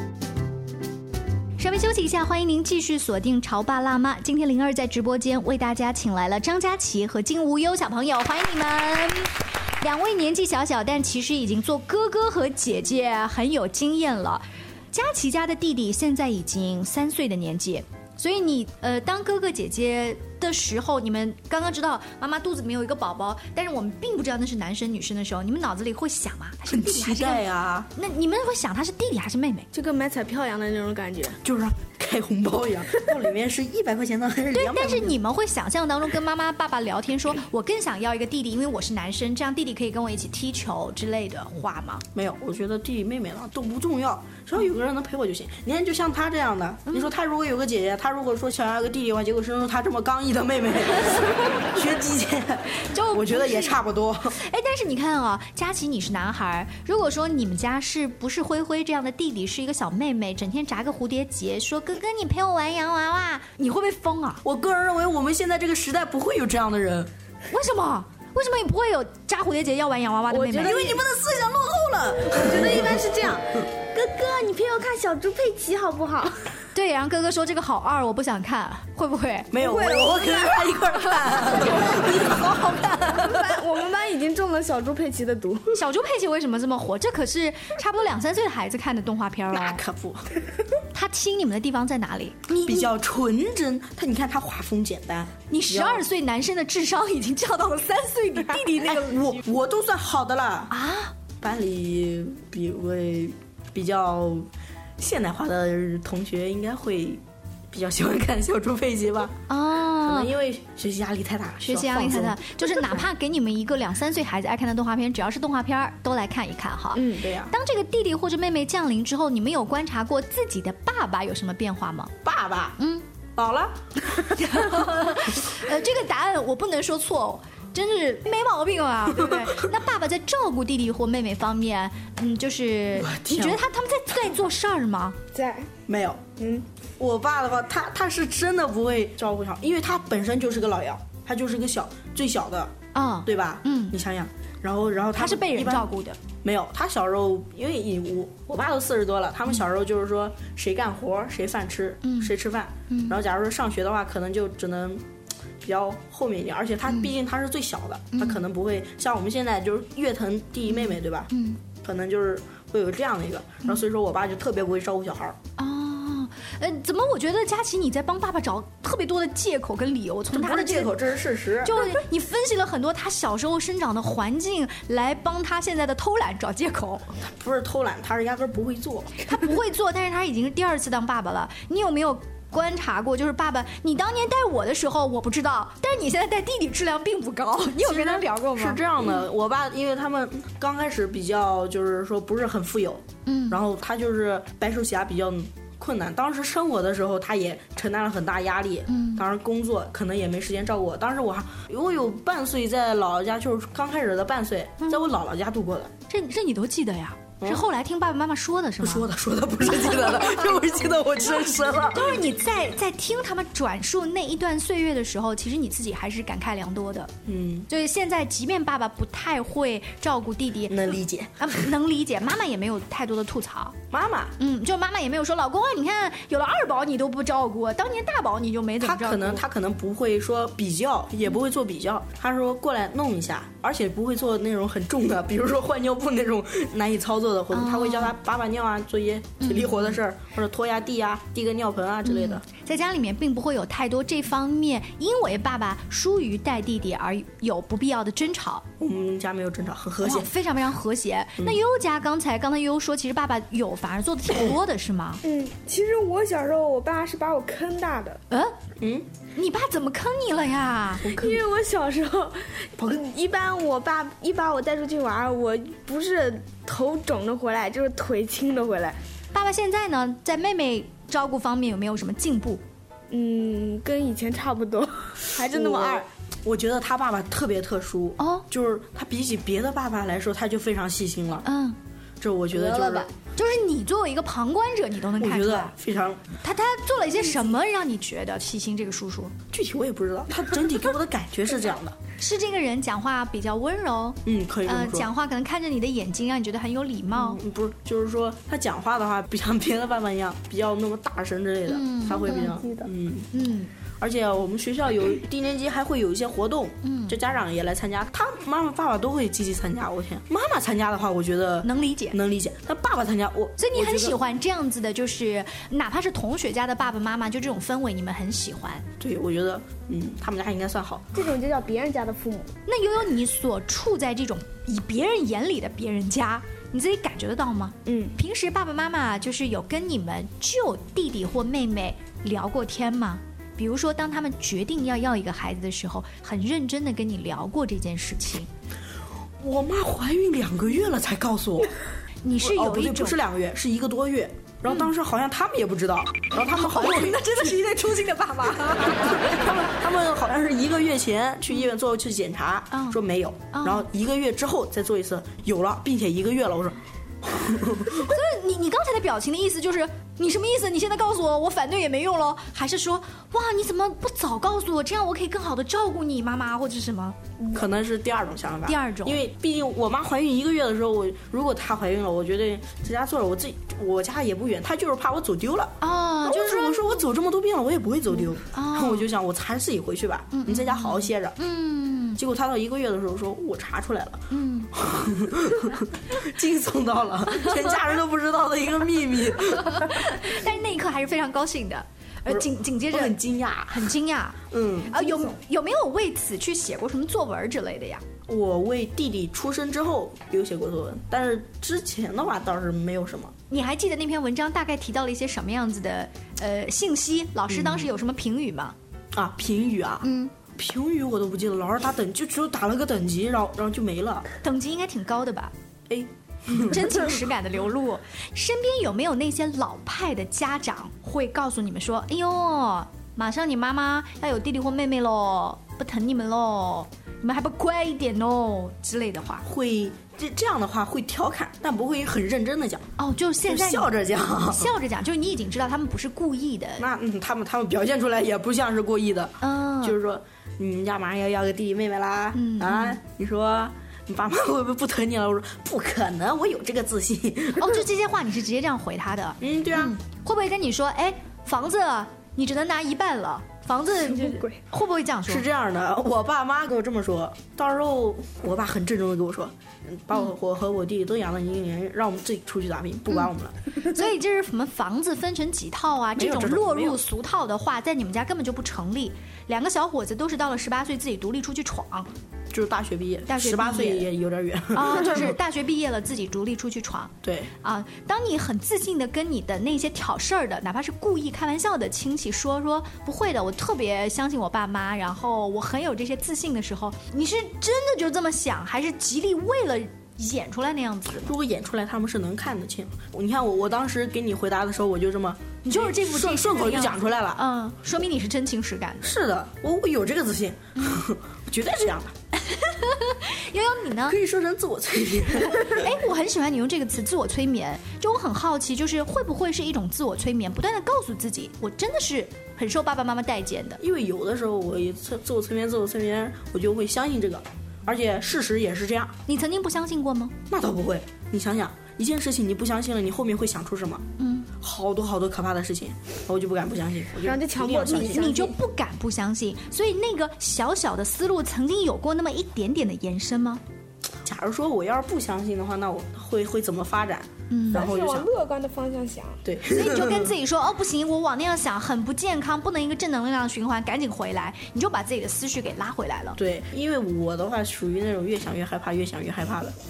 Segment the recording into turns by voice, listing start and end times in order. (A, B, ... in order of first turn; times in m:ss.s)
0:01.6-0:29.7 A
0:26.7-0:27.9 B
0:29.7-0:31.4 C
0:31.4-0:35.2 B
0:34.5-0:42.0 A
0:42.1-0:54.4 B
0:52.8-0:53.8 A
0:54.4-1:04.4 A
1:04.4-1:07.1 B
1:07.5-1:10.8 A
1:10.3-1:11.0 C
1:10.6-1:13.0 B
1:12.3-1:16.5 C
1:16.7-1:19.5 A
1:19.5-1:23.6 B
1:19.6-1:25.7 C
1:25.7-1:29.8 A
1:29.5-1:30.3 B
1:30.9-1:32.9 A
1:32.5-1:36.0 B
1:35.5-1:39.4 A
1:38.8-1:40.7 B
1:40.7-1:41.1 A
1:41.4-1:53.0 B
1:49.5-1:50.3 A
1:51.6-2:02.1 A
1:56.9-1:57.2 C
1:57.1-1:57.5 B
2:02.2-2:02.8 B
2:02.8-2:03.0 A
2:03.4-2:05.2 B
2:04.1-2:15.2 A
2:09.1-2:09.6 B
2:12.9-2:13.6 B
2:15.3-2:15.7 C
2:15.9-2:16.4 B
2:17.0-2:22.7 B
2:22.9-2:23.9 A
2:23.2-2:25.9 B
2:25.2-2:26.2 A
2:26.4-2:35.0 B
2:32.0-2:32.3 A
2:32.9-2:33.2 A
2:35.6-2:45.4 B
2:38.1-2:38.4 A
2:40.7-2:41.6 A
2:45.6-2:50.9 A
2:50.3-2:52.0 B
2:51.6-2:57.1 A
2:57.2-2:59.5 B
2:59.2-3:09.2 A
3:07.8-3:25.9 B
3:13.2-3:13.6 A
3:18.9-3:19.2 A
3:24.8-3:25.1 A
3:26.1-3:29.1 A
3:28.8-3:32.1 B
3:29.7-3:30.6 A
3:31.2-3:37.1 A
3:37.2-3:37.7 B
3:37.7-3:43.8 A
3:40.7-3:41.6 B
3:43.9-3:44.3 B
3:44.4-3:49.4 A
3:48.8-4:02.4 B
3:57.5-3:58.1 A
3:59.4-4:00.0 A
4:02.0-4:08.6 A
4:08.8-4:10.3 B
4:10.0-4:15.2 A
4:15.2-4:18.2 C
4:18.8-4:19.1 B
4:19.3-4:21.1 A
4:21.0-4:21.4 B
4:21.1-4:29.0 C
4:29.3-4:32.6 A
4:33.1-4:36.1 C
4:35.4-4:41.4 B
4:38.2-4:38.4 A
4:41.4-4:41.8 A
4:42.2-4:43.1 B
4:42.5-4:45.7 A
4:45.2-4:46.2 B
4:46.4-4:49.3 A
4:49.5-4:52.0 B
4:52.2-4:57.4 A
4:54.2-4:55.1 B
4:57.1-5:03.3 B
5:01.7-5:02.5 A
5:02.1-5:02.9 C
5:03.3-5:03.7 A
5:04.0-5:14.2 B
5:06.8-5:07.2 A
5:11.6-5:12.2 A
5:13.6-5:18.9 A
5:19.0-5:21.0 B
5:21.1-5:22.5 C
5:22.6-5:38.5 A
5:27.8-5:28.1 C
5:39.4-5:41.7 B
5:42.2-5:43.2 A
5:42.4-5:48.0 B
5:46.3-5:49.2 A
5:48.6-5:58.2 B
5:52.7-5:53.0 A
5:53.5-5:53.9 A
5:57.9-6:07.2 A
6:07.5-6:21.4 B
6:08.6-6:09.2 A
6:15.8-6:17.0 A
6:18.5-6:19.1 A
6:20.3-6:22.2 A
6:22.2-6:30.2 B
6:24.3-6:24.7 A
6:29.6-6:38.0 A
6:32.3-6:33.9 B
6:34.5-6:35.0 B
6:38.3-6:43.3 B
6:43.5-6:48.7 A
6:47.5-6:47.9 B
6:49.1-6:54.3 B
6:50.0-6:50.3 A
6:54.4-6:55.5 A
6:55.9-6:57.2 B
6:56.6-7:09.4 A
7:09.4-7:12.9 B
7:13.0-7:16.8 A
7:13.4-7:14.7 B
7:16.8-7:27.8 B
7:19.4-7:20.0 A
7:22.3-7:23.0 A
7:27.6-7:35.4 A
7:29.4-7:29.9 B
7:35.2-7:43.6 B
7:43.8-7:52.1 A
7:46.2-7:47.0 B
7:52.5-7:55.4 B
7:53.3-7:54.1 A
7:54.7-8:11.3 A
7:57.2-7:57.5 B
8:11.2-8:17.4 B
8:15.6-8:19.1 A
8:19.0-8:22.1 B
8:22.4-8:24.2 A
8:24.1-8:25.9 B
8:25.5-8:33.8 A
8:33.8-8:39.1 B
8:39.3-8:40.3 A
8:40.5-8:44.0 B
8:44.2-8:44.5 A
8:44.6-8:48.3 B
8:47.2-8:48.5 C
8:48.0-8:53.6 A
8:54.2-8:58.3 B
8:57.5-8:57.9 A
8:57.7-8:59.4 C
8:59.4-9:00.4 B
8:59.7-9:06.4 A
9:06.4-9:09.7 B